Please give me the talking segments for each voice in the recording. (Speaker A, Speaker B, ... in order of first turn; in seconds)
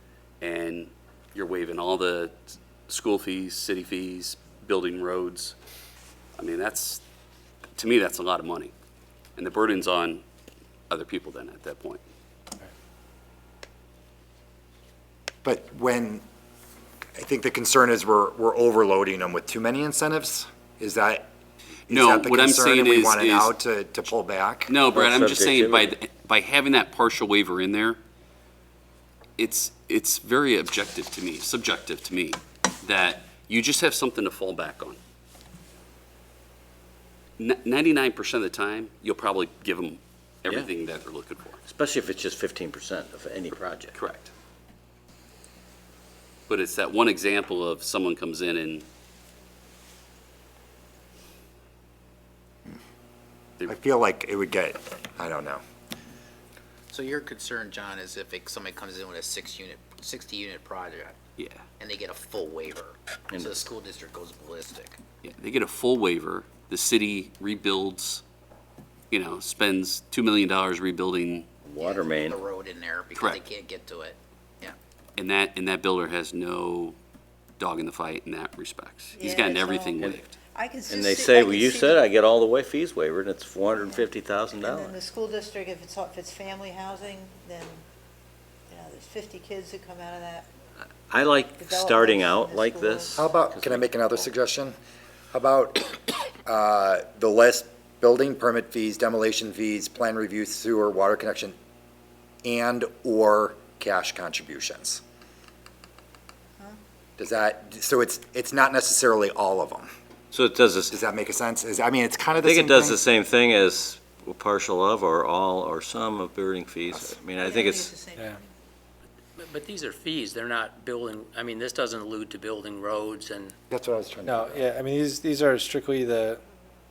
Speaker A: 0.4-5.5, 6.3-7.0, 7.8-8.7, 9.4-10.2, 10.9-12.0, 21.9-23.5, 24.7-28.0, 29.4-35.0, 37.4-41.6, 43.9-44.3, 46.5-48.8, 65.2-68.2, 69.1-71.5, 75.2-77.0, 77.6-80.3
Speaker B: 15.4-16.2, 17.1-21.3, 21.9-24.7, 53.7-55.6, 93.1-94.8, 95.3-101.5, 102.4-105.0, 107.2-109.9, 110.9-113.0, 123.7-124.6
Speaker C: 25.0-25.9, 41.7-43.9, 71.7-72.3, 80.9-84.9, 91.1-93.9, 110.3-111.0, 112.4-117.9
Speaker D: 56.9-61.2, 61.8-65.0, 71.8-74.8
Speaker E: 79.2-82.0, 83.7-87.8, 88.7-90.5, 91.5-93.3, 117.3-118.5
Speaker F: 119.4-123.5
Speaker G: 124.2-126.4